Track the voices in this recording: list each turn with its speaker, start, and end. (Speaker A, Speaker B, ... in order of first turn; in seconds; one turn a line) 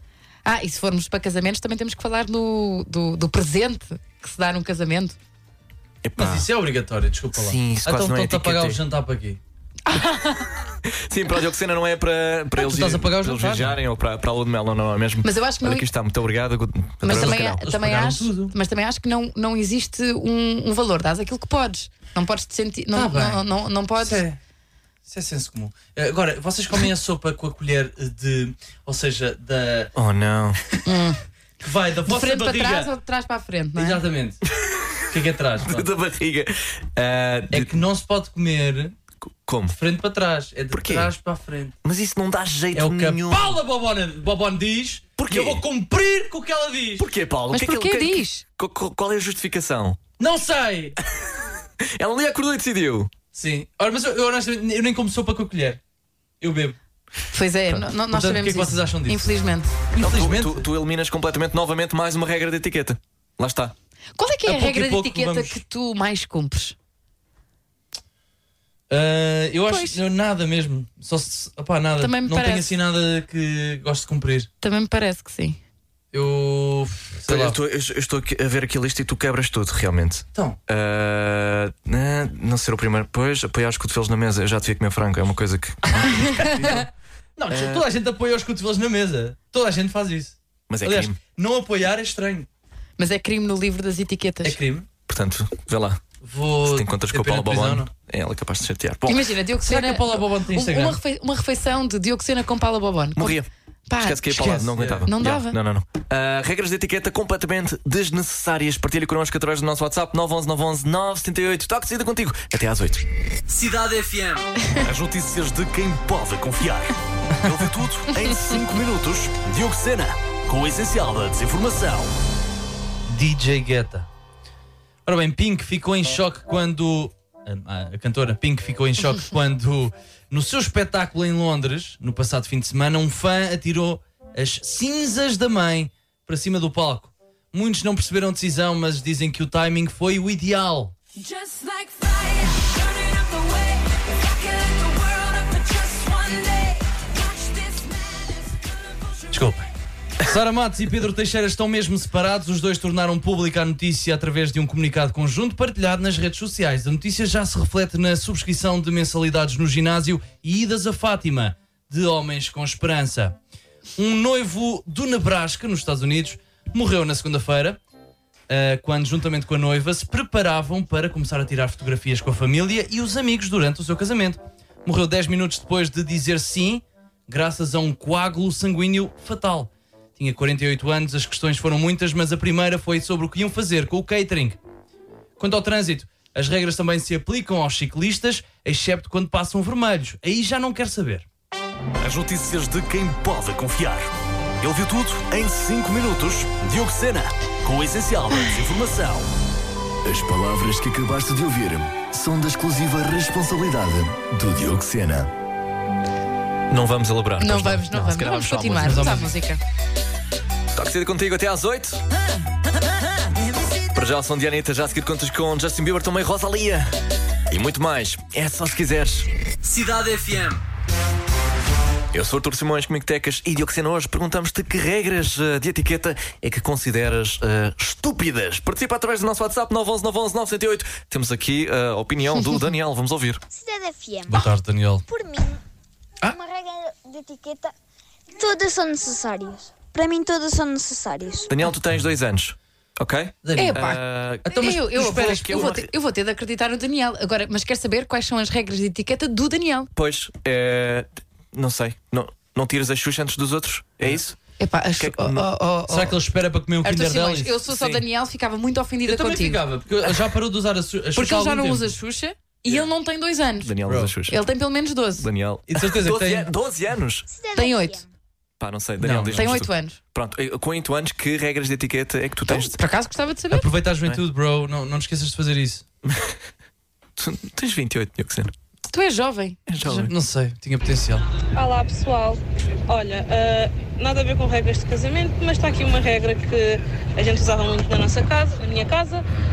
Speaker A: 0.4-5.2
Speaker B: 6.0-6.5
Speaker C: 6.2-9.4
Speaker B: 7.3-8.8
Speaker A: 9.8-10.5
Speaker B: 10.8-17.6
Speaker C: 12.6-13.8
Speaker A: 15.2-15.9
Speaker A: 17.0-24.2
Speaker C: 17.1-18.5
Speaker C: 22.9-23.4
Speaker C: 24.0-24.4
Speaker C: 25.1-29.9
Speaker B: 29.9-30.6
Speaker A: 30.8-31.2
Speaker C: 31.6-32.9
Speaker A: 32.0-34.0
Speaker C: 33.7-34.4
Speaker B: 34.6-35.0
Speaker C: 35.1-35.9
Speaker B: 35.6-37.7
Speaker C: 37.5-38.9
Speaker B: 39.4-39.8
Speaker C: 39.7-41.7
Speaker B: 40.7-41.1
Speaker B: 41.8-43.6
Speaker C: 42.7-47.0
Speaker B: 45.2-45.6
Speaker B: 47.0-50.0
Speaker A: 47.5-48.4
Speaker C: 50.2-51.0
Speaker B: 51.8-53.1
Speaker C: 53.3-55.8
Speaker C: 56.4-56.8
Speaker A: 57.3-59.7
Speaker C: 58.0-59.3
Speaker C: 59.9-60.6
Speaker B: 60.0-63.7
Speaker A: 64.2-66.8
Speaker C: 64.5-65.6
Speaker C: 68.9-74.5
Speaker A: 69.7-70.0
Speaker A: 72.0-72.7
Speaker A: 74.6-75.6
Speaker C: 76.1-77.6
Speaker B: 77.3-86.9
Speaker A: 86.2-86.5
Speaker C: 86.4-92.5
Speaker B: 87.5-87.8
Speaker B: 90.7-91.2
Speaker A: 93.0-94.6
Speaker C: 94.4-94.9
Speaker B: 95.1-96.0
Speaker C: 96.2-97.9
Speaker B: 96.6-99.2
Speaker A: 99.0-103.4
Speaker C: 99.6-101.0
Speaker B: 103.2-103.5
Speaker A: 103.9-104.4
Speaker B: 104.0-113.0
Speaker C: 104.3-105.0
Speaker A: 105.1-105.6
Speaker D: 113.5-122.1
Speaker C: 123.1-124.1
Speaker C: 125.0-140.9
Speaker E: 141.2-149.4
Speaker C: 149.3-149.7
Speaker C: 150.2-163.4
Speaker C: 164.0-167.8
Speaker C: 168.5-184.6
Speaker C: 185.4-191.2
Speaker D: 192.0-199.3
Speaker D: 200.0-205.3
Speaker B: 206.7-209.2
Speaker A: 207.4-209.6
Speaker C: 208.8-209.3
Speaker B: 210.7-212.0
Speaker B: 213.9-216.9
Speaker B: 217.5-219.3
Speaker D: 219.6-220.6
Speaker B: 222.1-233.4
Speaker F: 233.5-234.5
Speaker C: 234.3-235.0
Speaker F: 235.1-235.6
Speaker F: 236.2-237.7
Speaker F: 238.3-241.5
Speaker B: 241.5-245.9
Speaker C: 243.4-243.8
Speaker A: 243.5-249.9
Speaker C: 244.4-244.9
Speaker B: 249.9-254.4
Speaker A: 254.6-256.2
Speaker B: 255.0-255.5
Speaker C: 255.9-257.9
Speaker A: 256.8-259.6
Speaker C: 259.0-261.9
Speaker A: 261.1-263.7
Speaker B: 263.6-264.4
Speaker C: 263.8-264.1
Speaker A: 264.3-265.2
Speaker B: 265.2-267.3
Speaker C: 265.7-266.5
Speaker F: 267.3-268.1
Speaker A: 267.5-268.0
Speaker B: 268.6-272.8
Speaker C: 269.0-269.6
Speaker A: 269.3-270.0
Speaker A: 272.5-273.7
Speaker C: 273.5-275.8
Speaker B: 276.1-276.4
Speaker B: 277.2-278.5
Speaker A: 278.9-279.6
Speaker B: 279.7-280.1
Speaker C: 279.8-281.2
Speaker G: 281.5-289.2